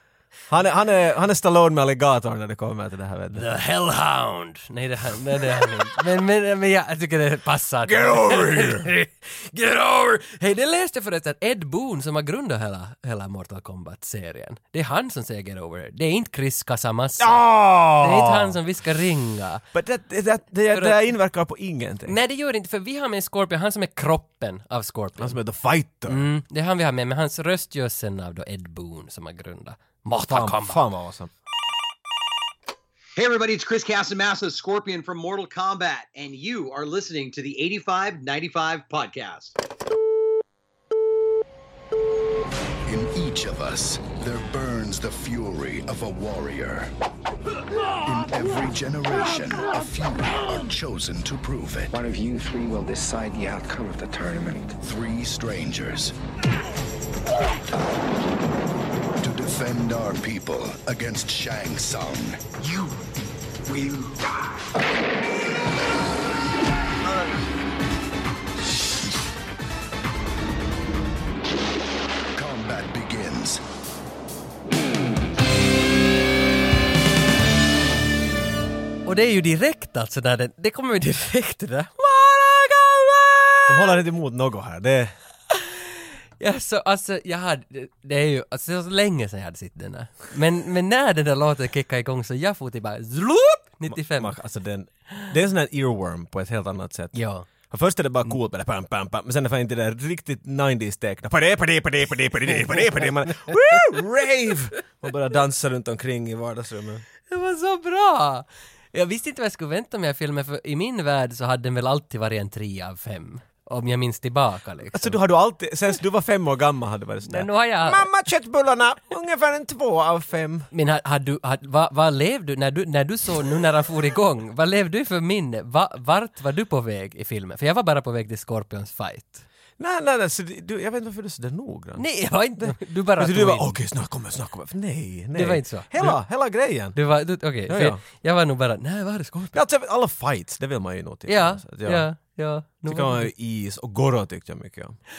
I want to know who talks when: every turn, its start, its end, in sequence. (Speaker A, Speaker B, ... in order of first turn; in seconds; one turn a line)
Speaker A: 0.5-3.5
Speaker B: 3.3-19.6
Speaker A: 5.4-5.8
Speaker A: 7.9-8.9
Speaker A: 17.2-18.6
Speaker A: 19.7-22.2
Speaker B: 20.7-21.0
Speaker B: 22.1-25.4
Speaker A: 25.2-26.2
Speaker B: 26.1-30.8
Speaker A: 30.3-31.3
Speaker C: 33.2-39.6
Speaker D: 42.9-46.9
Speaker D: 48.0-51.9
Speaker E: 51.9-54.8
Speaker D: 54.8-56.1
Speaker D: 59.2-62.9
Speaker D: 63.7-64.2
Speaker D: 72.3-73.6
Speaker B: 79.0-84.0
Speaker A: 83.7-85.2
Speaker B: 86.4-94.3
Speaker A: 93.9-97.2
Speaker B: 97.1-97.5
Speaker A: 97.7-107.0
Speaker B: 107.3-115.2
Speaker A: 114.9-120.7
Speaker B: 117.2-118.1
Speaker B: 120.7-129.4
Speaker A: 129.8-137.0
Speaker B: 132.0-133.8
Speaker B: 135.3-136.2
Speaker B: 136.9-139.6
Speaker A: 137.7-138.0
Speaker A: 139.5-142.1
Speaker B: 141.3-143.3
Speaker A: 142.9-145.0